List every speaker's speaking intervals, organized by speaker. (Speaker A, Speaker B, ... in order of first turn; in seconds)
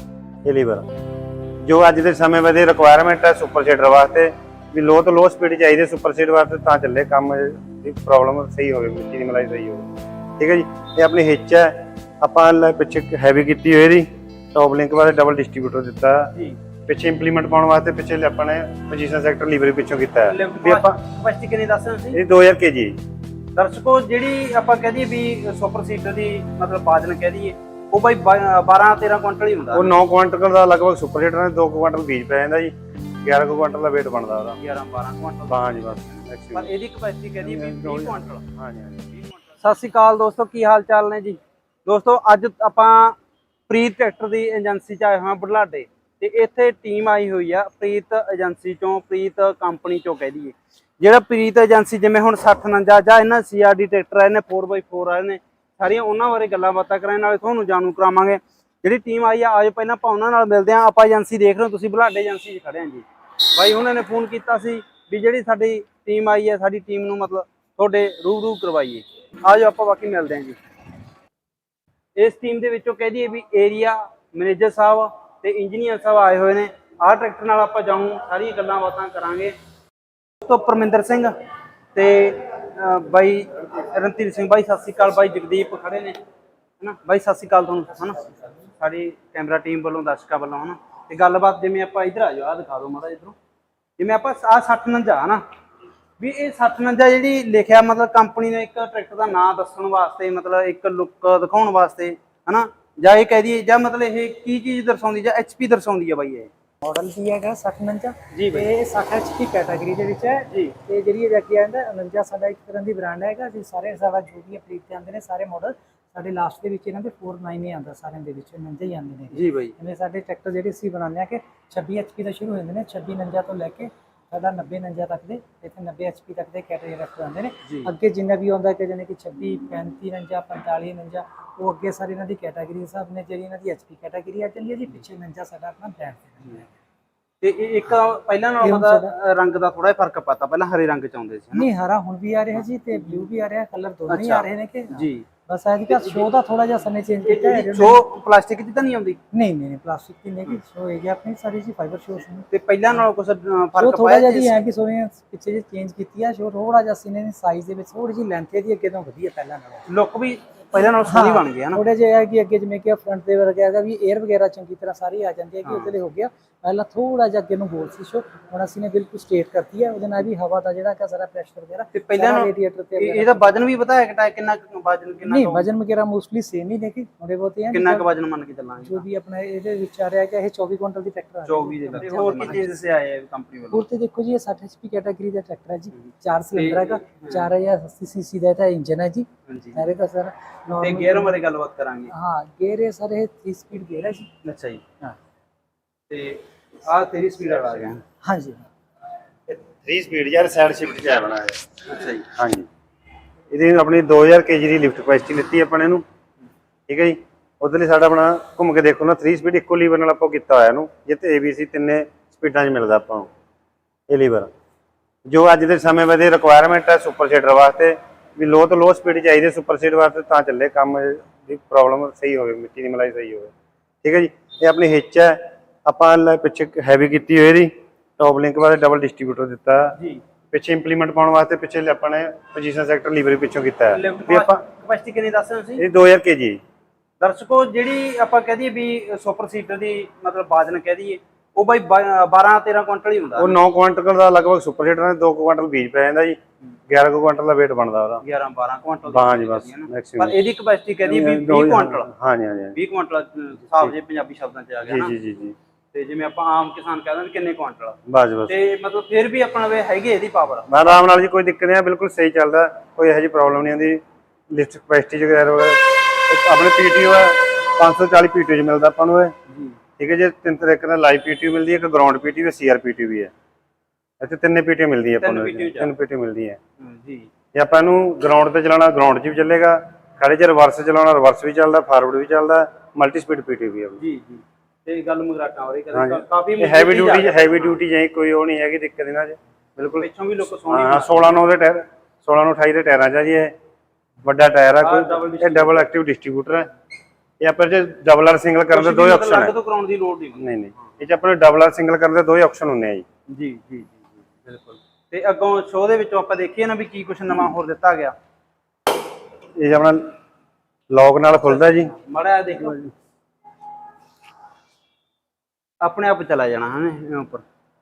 Speaker A: 0.4-0.8, 1.6-9.9, 10.4-16.3, 16.9-20.9, 22.1-23.0, 29.7-34.6, 35.5-36.7, 37.4-39.1, 199.5-201.6, 202.3-202.7, 203.5-206.0, 206.9-213.3, 214.1-214.5, 215.2-223.5, 224.0-229.9, 230.5-234.6, 235.8-236.6, 243.3-246.4, 246.9-248.2, 249.1-250.4, 251.0-252.8, 254.9-255.5, 258.1-258.5, 260.7-269.3, 270.0-273.3, 274.2-276.6, 277.5-284.0, 285.9-290.1, 290.7-293.5, 294.2-296.7, 297.4-299.5, 300.4-303.0, 309.6-310.1, 310.9-311.9
Speaker B: 20.2-22.2, 23.5-29.9, 34.6-38.4, 39.1-43.2, 43.7-70.6, 72.2-79.5, 80.4-81.3, 81.9-86.2, 86.8-93.3, 94.0-95.4, 96.2-106.5, 108.3-108.7, 110.5-110.7, 119.3-119.7, 127.6-127.9, 137.4-141.7, 144.1-145.3, 145.9-146.3, 147.2-149.2, 152.5-154.6, 159.9-161.8, 165.6-165.9, 171.9-175.7, 177.7-179.0, 181.4-183.8, 186.0-187.5, 189.5-189.8, 190.8-192.1, 194.4-194.8, 196.1-198.0, 201.9-202.2, 230.0-230.2, 233.9-235.8, 237.2-243.6, 248.2-252.1, 252.7-255.1, 255.9-260.9, 269.5-269.8, 275.2-275.9, 276.8-277.3, 284.0-287.8, 290.0-291.4, 294.8-295.9, 298.7-300.4, 303.3-308.1, 311.3-312.8, 315.8-317.4
Speaker C: 106.8-136.7, 138.6-139.1, 141.5-148.0, 149.3-152.5, 153.7-159.8, 161.0-173.6, 175.2-178.1, 178.8-182.7, 183.7-191.4, 192.1-194.3, 198.2-198.6